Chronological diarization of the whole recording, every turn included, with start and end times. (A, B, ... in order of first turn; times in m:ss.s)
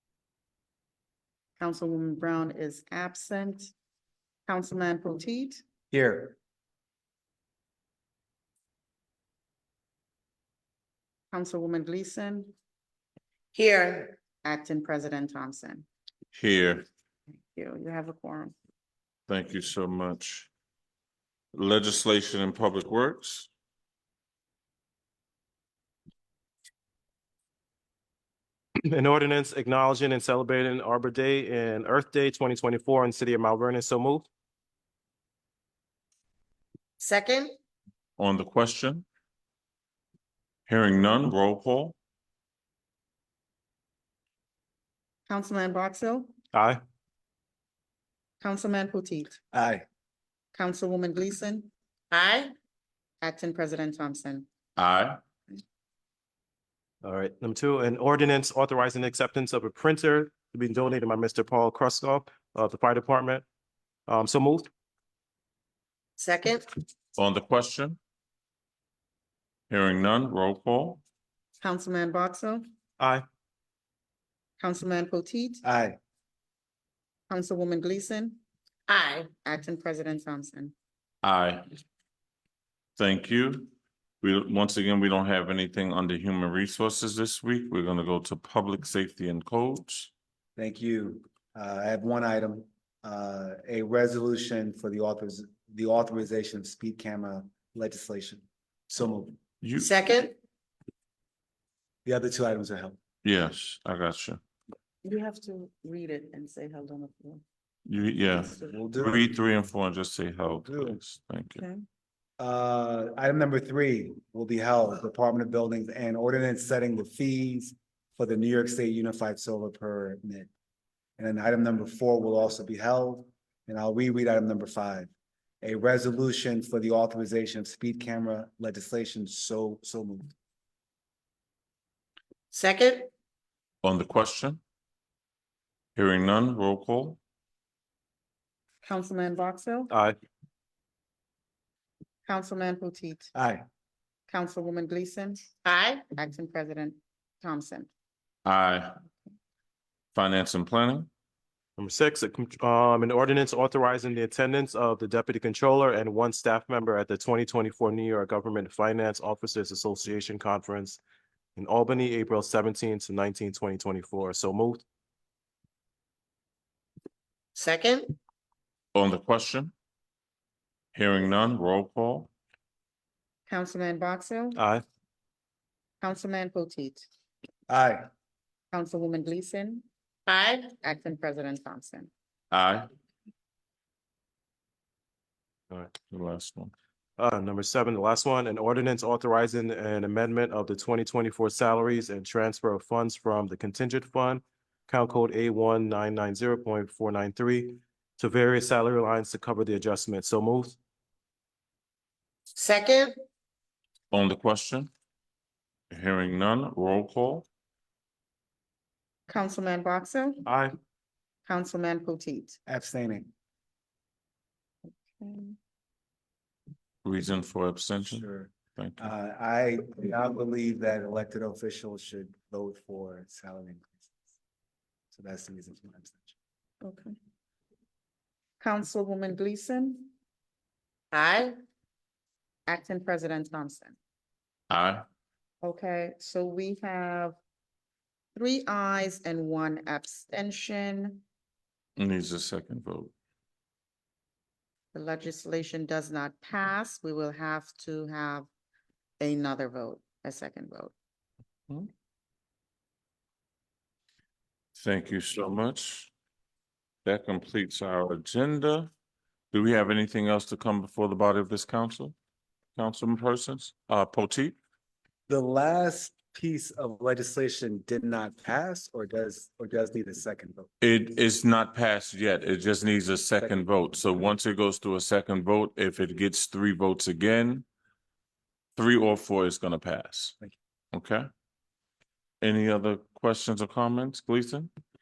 0:01.6-0:03.7 A
0:04.5-0:05.6 A
0:05.9-0:06.3 B
0:11.3-0:12.5 A
0:13.5-0:14.2 C
0:14.4-0:15.9 A
0:16.3-0:16.9 D
0:17.5-0:18.5 A
0:19.3-0:20.5 D
0:21.5-0:23.5 D
0:28.8-0:34.3 E
0:37.0-0:37.5 C
0:38.2-0:39.0 D
0:40.7-0:42.0 D
0:45.3-0:46.3 A
0:46.5-0:46.8 E
0:48.4-0:49.4 A
0:49.5-0:49.8 B
0:50.5-0:51.7 A
0:52.1-0:52.5 C
0:53.2-0:54.5 A
0:54.8-0:55.2 D
0:57.0-1:03.4 E
1:04.1-1:04.7 E
1:06.2-1:06.7 C
1:07.2-1:08.0 D
1:09.7-1:11.0 D
1:11.6-1:12.6 A
1:13.0-1:13.3 E
1:14.6-1:15.6 A
1:15.6-1:16.0 B
1:17.3-1:18.4 A
1:18.9-1:19.3 C
1:19.4-1:20.7 A
1:21.2-1:21.7 D
1:23.0-1:30.1 D
1:30.6-1:39.4 B
1:39.6-1:40.0 D
1:39.8-1:40.4 C
1:42.0-1:43.0 B
1:43.2-1:44.4 D
1:45.0-1:47.4 A
1:47.8-1:51.6 D
1:48.6-1:49.3 B
1:50.6-1:51.0 B
1:51.6-1:51.8 A
1:52.4-2:00.5 B
2:01.2-2:05.1 B
2:05.6-2:10.3 B
2:12.5-2:13.1 C
2:13.8-2:14.6 D
2:16.0-2:17.2 D
2:18.8-2:19.9 A
2:19.9-2:20.2 E
2:22.2-2:23.3 A
2:23.3-2:23.6 B
2:24.3-2:25.4 A
2:25.6-2:26.0 C
2:26.1-2:27.9 A
2:28.4-2:29.0 D
2:30.1-2:31.1 D
2:31.8-2:41.0 E
2:41.6-2:44.8 E
2:47.6-2:48.2 C
2:48.9-2:49.7 D
2:50.9-2:52.3 D
2:53.5-2:54.6 A
2:54.6-2:54.8 E
2:56.0-2:57.1 A
2:57.7-2:58.1 B
2:58.7-2:59.8 A
3:00.3-3:00.7 C
3:00.8-3:02.1 A
3:02.5-3:02.9 D
3:05.9-3:06.7 D
3:07.2-3:20.8 E
3:22.5-3:23.1 C
3:24.1-3:24.9 D
3:25.9-3:27.4 D
3:29.3-3:30.5 A
3:30.4-3:30.8 E
3:31.4-3:32.6 A
3:32.7-3:33.3 B
3:35.1-3:35.5 A
3:37.0-3:38.2 D
3:38.0-3:44.1 B
3:38.8-3:39.1 D
3:45.1-3:46.3 B
3:46.8-3:47.1 A
3:48.6-3:50.1 A
3:51.1-3:51.5 C
3:52.7-3:54.0 A
3:54.7-3:55.0 D
3:55.6-3:57.4 A
3:58.3-4:01.2 A
4:02.0-4:03.1 D
4:04.9-4:08.5 A
4:09.2-4:10.9 A
4:14.8-4:16.1 D
4:17.0-4:18.9 D
4:19.5-4:22.1 D
4:22.8-4:24.6 D
4:25.3-4:30.7 B
4:30.8-4:37.6 D
4:38.8-4:40.4 D
4:40.9-4:41.3 D
4:42.4-4:44.7 D